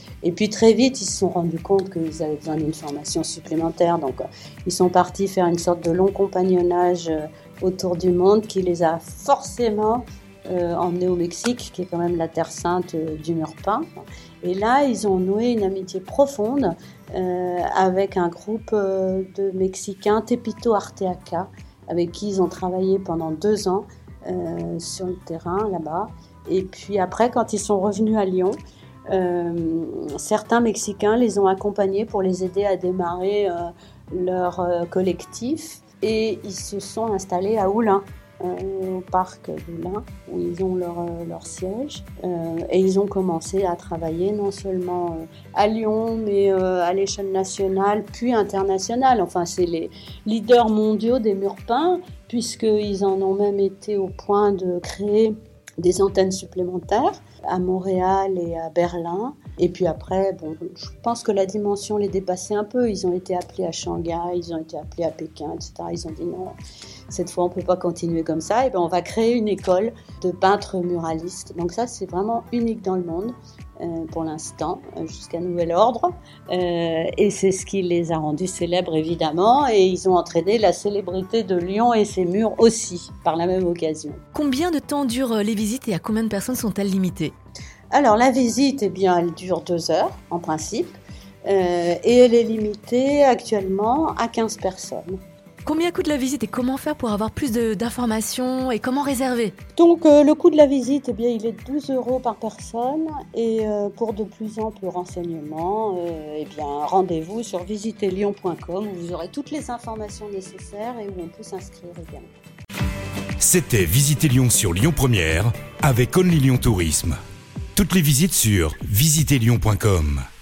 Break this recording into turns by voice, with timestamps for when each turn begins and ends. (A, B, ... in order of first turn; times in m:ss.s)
0:00.2-0:13.9 A
0:14.4-0:28.6 A
0:29.1-1:06.6 A
1:07.1-1:24.2 A
1:24.3-1:27.3 B
1:27.9-1:35.2 A
1:35.6-1:39.5 B
1:39.8-1:52.3 A
1:53.4-1:57.2 C
1:57.7-2:00.2 C